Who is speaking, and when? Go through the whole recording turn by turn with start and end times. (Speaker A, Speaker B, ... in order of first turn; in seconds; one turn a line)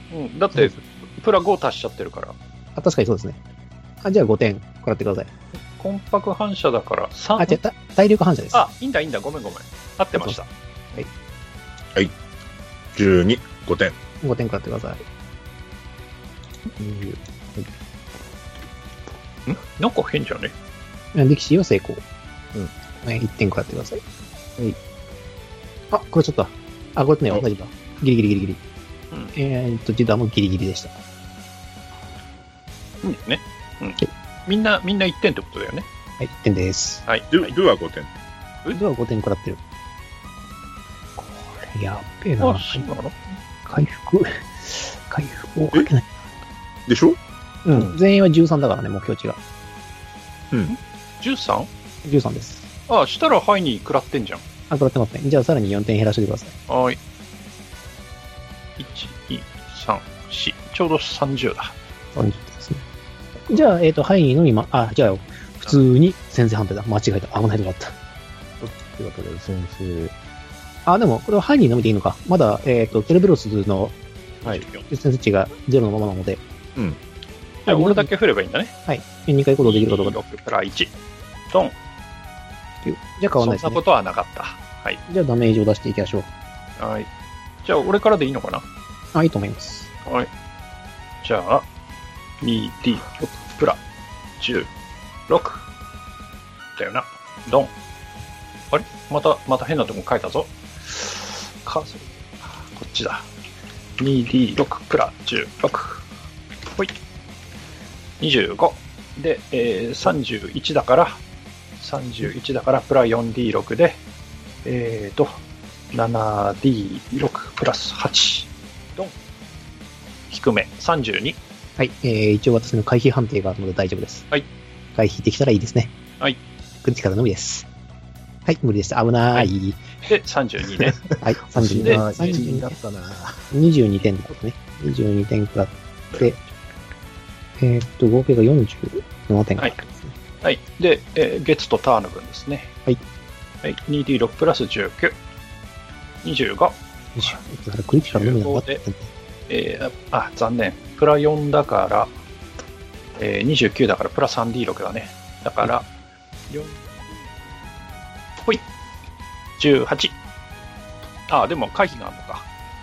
Speaker A: 0.1-2.3
Speaker B: 2.8-3.4
Speaker B: 4.0-5.3
Speaker A: 5.8-7.6
Speaker B: 7.4-8.6
Speaker A: 8.5-10.5
Speaker C: 12.9-13.9
Speaker B: 14.2-15.0
Speaker D: 16.8-17.7
Speaker A: 19.5-20.5
Speaker B: 21.1-22.0
Speaker B: 23.0-24.0
Speaker B: 25.9-28.6
Speaker B: 29.3-30.9
Speaker A: 33.0-35.9
Speaker B: 36.2-37.0
Speaker A: 37.1-37.5
Speaker C: 37.3-38.1
Speaker B: 38.7-39.6
Speaker B: 41.2-42.9
Speaker A: 42.4-43.1
Speaker B: 43.6-46.1
Speaker C: 46.9-47.2
Speaker B: 47.6-49.4
Speaker A: 50.7-51.7
Speaker B: 52.0-52.7
Speaker A: 52.9-54.4
Speaker B: 54.7-56.5
Speaker A: 56.7-57.0
Speaker A: 58.8-61.7
Speaker B: 62.1-62.8
Speaker B: 63.5-67.9
Speaker D: 68.6-70.1
Speaker B: 70.8-73.9
Speaker A: 74.4-74.8
Speaker B: 74.8-76.4
Speaker B: 77.7-78.1
Speaker A: 77.7-78.7
Speaker B: 78.9-80.2
Speaker A: 79.6-80.9
Speaker B: 82.8-83.8
Speaker A: 83.4-85.0
Speaker B: 85.1-86.3
Speaker A: 86.8-87.1
Speaker A: 87.6-88.6
Speaker B: 89.1-89.9
Speaker A: 91.2-91.6
Speaker A: 92.4-93.8
Speaker A: 94.4-94.7
Speaker A: 95.3-95.6
Speaker A: 96.8-97.7
Speaker A: 98.7-103.2
Speaker A: 104.0-106.0
Speaker A: 108.2-111.2
Speaker A: 111.8-114.0
Speaker A: 114.6-115.3
Speaker A: 115.9-119.1
Speaker A: 120.3-121.4
Speaker B: 121.8-124.3
Speaker B: 125.0-125.9
Speaker B: 126.8-127.7
Speaker B: 128.4-129.8
Speaker A: 130.1-131.0
Speaker B: 131.2-132.7
Speaker D: 131.5-133.5
Speaker A: 131.8-132.4
Speaker B: 133.5-136.4
Speaker B: 137.6-140.1
Speaker A: 140.4-142.7
Speaker A: 143.6-145.2
Speaker A: 146.2-146.8
Speaker B: 147.2-149.1
Speaker A: 148.0-148.8
Speaker A: 149.5-152.1
Speaker A: 153.2-155.9
Speaker A: 156.5-156.8
Speaker A: 159.6-160.1
Speaker A: 161.3-162.4